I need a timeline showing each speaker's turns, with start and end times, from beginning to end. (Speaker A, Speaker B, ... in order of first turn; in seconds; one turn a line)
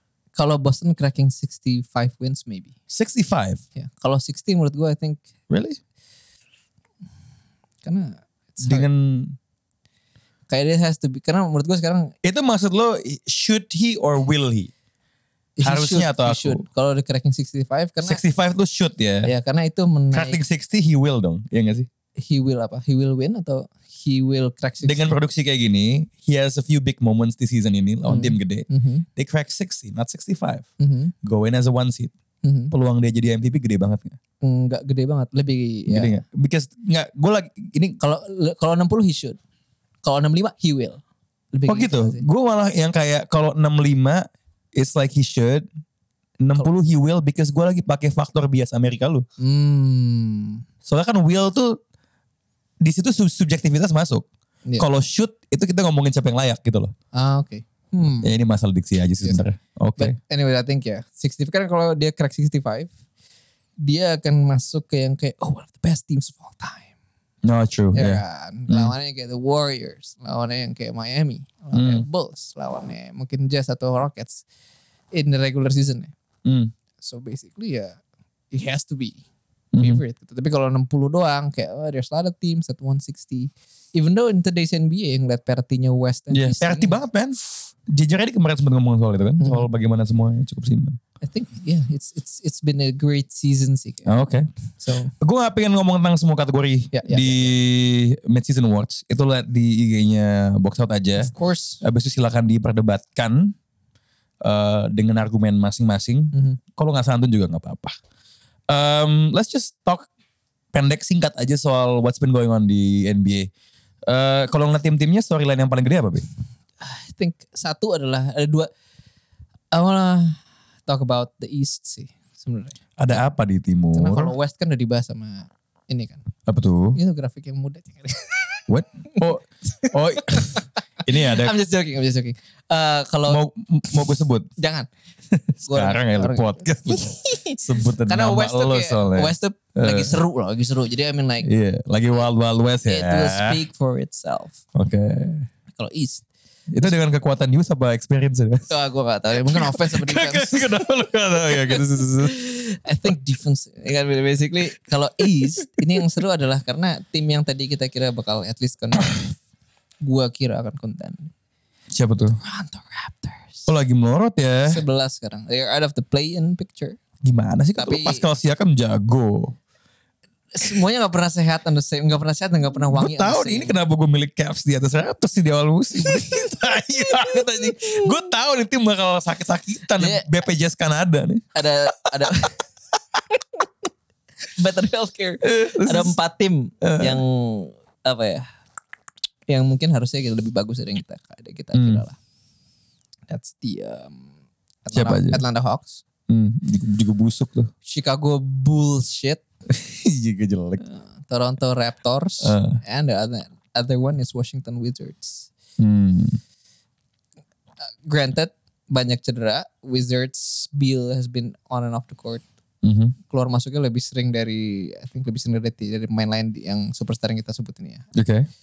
Speaker A: 0.3-2.8
Speaker B: 2.9-3.6
Speaker A: 3.8-5.2
Speaker B: 5.5-5.8
Speaker A: 7.8-8.9
Speaker B: 8.6-9.4
Speaker A: 10.5-12.1
Speaker B: 12.2-14.7
Speaker A: 15.6-18.2
Speaker B: 15.6-16.6
Speaker B: 18.0-19.3
Speaker A: 19.2-20.4
Speaker B: 20.1-21.9
Speaker A: 22.2-25.2
Speaker B: 24.8-30.7
Speaker A: 28.1-29.1
Speaker A: 30.8-31.1
Speaker B: 31.2-32.1
Speaker A: 32.4-32.7
Speaker B: 32.7-34.2
Speaker A: 34.4-36.2
Speaker B: 35.9-38.0
Speaker A: 38.0-39.4
Speaker A: 40.0-41.0
Speaker A: 41.5-42.2
Speaker B: 41.7-45.7
Speaker B: 46.4-49.2
Speaker A: 49.4-50.6
Speaker B: 50.9-51.8
Speaker B: 52.8-54.3
Speaker B: 54.8-56.9
Speaker A: 57.1-58.3
Speaker B: 58.2-60.1
Speaker A: 60.0-62.9
Speaker A: 63.8-66.9
Speaker B: 67.4-68.9
Speaker A: 67.9-74.5
Speaker B: 71.7-72.0
Speaker A: 75.1-76.1
Speaker B: 76.5-76.7
Speaker A: 77.0-78.0
Speaker A: 78.5-79.2
Speaker B: 79.7-80.0
Speaker A: 79.8-87.0
Speaker B: 86.3-91.0
Speaker A: 89.4-89.7
Speaker A: 91.2-94.1
Speaker B: 94.1-94.5
Speaker A: 94.8-95.1
Speaker B: 95.2-101.3
Speaker A: 96.9-97.5
Speaker A: 101.2-101.8
Speaker B: 101.8-103.5
Speaker B: 104.4-108.0
Speaker A: 106.3-106.6
Speaker B: 108.7-110.1
Speaker B: 110.7-113.5
Speaker B: 114.1-116.3
Speaker A: 116.8-118.7
Speaker A: 119.7-122.8
Speaker B: 123.0-124.3
Speaker A: 123.9-126.2
Speaker B: 126.5-127.0
Speaker A: 127.0-128.6
Speaker B: 128.7-131.5
Speaker A: 129.7-130.7
Speaker A: 131.2-133.4
Speaker B: 133.3-134.5
Speaker A: 134.6-134.9
Speaker B: 135.3-140.2
Speaker A: 135.7-141.5
Speaker B: 141.4-143.6
Speaker A: 142.8-144.6
Speaker B: 144.8-145.5
Speaker A: 145.8-146.3
Speaker B: 146.7-148.7
Speaker A: 148.7-150.7
Speaker B: 149.4-152.3
Speaker A: 151.5-159.3
Speaker B: 155.4-156.0
Speaker A: 160.0-161.3
Speaker B: 161.9-162.4
Speaker A: 162.3-163.7
Speaker B: 163.7-164.8
Speaker A: 164.7-167.0
Speaker B: 167.2-169.6
Speaker A: 167.8-168.2
Speaker A: 170.5-173.8
Speaker B: 172.8-181.5
Speaker A: 176.0-176.5
Speaker A: 177.2-178.2
Speaker A: 180.0-180.2
Speaker A: 181.6-182.6
Speaker B: 182.1-182.4
Speaker A: 183.3-183.6
Speaker A: 184.6-188.5
Speaker B: 185.4-186.2
Speaker B: 186.8-187.2
Speaker A: 189.5-192.2
Speaker B: 191.7-192.0
Speaker A: 193.3-194.2
Speaker A: 194.8-196.0
Speaker B: 194.9-195.4
Speaker B: 196.3-197.7
Speaker A: 197.9-199.4
Speaker B: 199.7-200.8
Speaker A: 200.9-205.5
Speaker B: 202.4-202.8
Speaker B: 205.8-206.4
Speaker A: 208.1-212.4
Speaker B: 212.8-213.2
Speaker A: 213.3-218.1
Speaker B: 218.2-218.5